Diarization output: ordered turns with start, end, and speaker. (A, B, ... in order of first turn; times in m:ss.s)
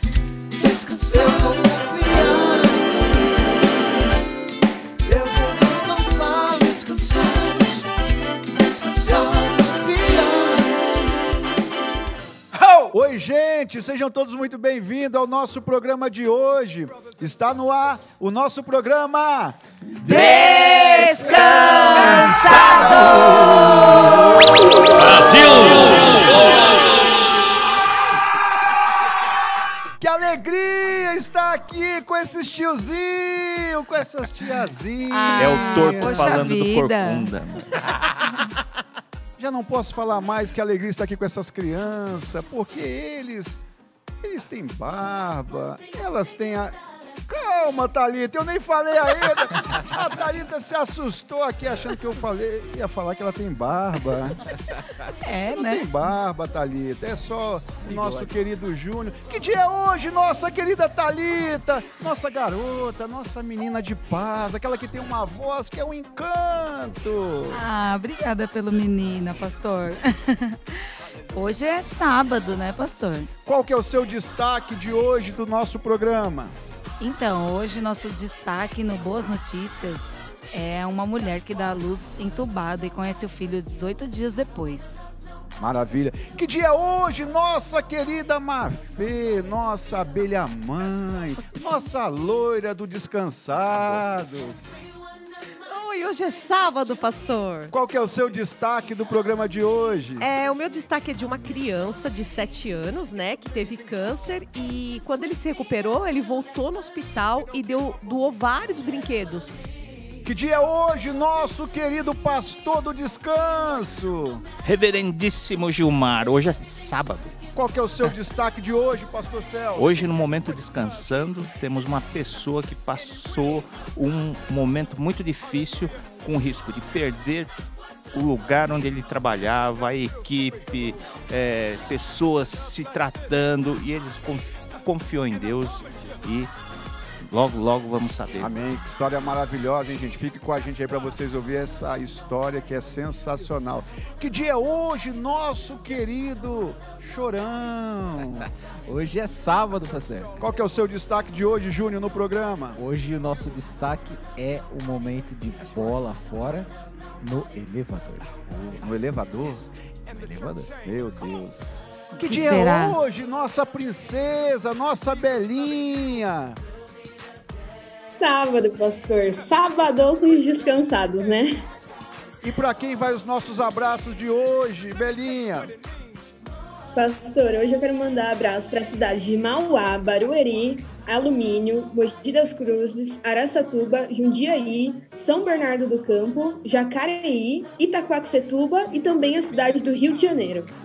0:00.6-0:03.2 A
0:05.0-0:07.8 A
0:08.8-0:10.2 A
0:09.9-0:10.6 B
0:12.6-0:26.4 B
0:20.0-0:24.1 C
0:25.3-0:25.8 D
0:30.0-0:37.3 B
0:35.1-0:37.3 C
0:35.3-0:37.8 D
0:39.4-0:43.6 B
0:44.2-0:54.4 B
0:55.2-0:55.9 C
0:55.3-1:07.6 B
0:57.8-0:58.3 A
1:07.5-1:13.3 C
1:13.4-1:16.6 B
1:17.0-1:25.0 C
1:25.6-1:34.8 B
1:35.7-1:37.7 E
1:37.7-1:40.3 B
1:40.2-1:49.7 E
1:50.2-1:54.4 B
1:54.6-1:57.4 D
1:57.5-2:00.1 B
1:59.7-2:07.5 D
2:08.1-2:16.5 D
2:17.2-2:18.5 D
2:18.4-2:28.4 B
2:28.4-2:30.3 A
2:30.4-2:32.8 B
2:32.8-2:36.7 A
2:37.2-2:38.7 A
2:38.5-2:39.6 B
2:40.1-2:40.7 A
2:40.8-2:46.6 B
2:42.2-2:43.0 C
2:48.1-2:51.6 F
2:52.4-2:55.7 B
2:56.9-3:10.7 F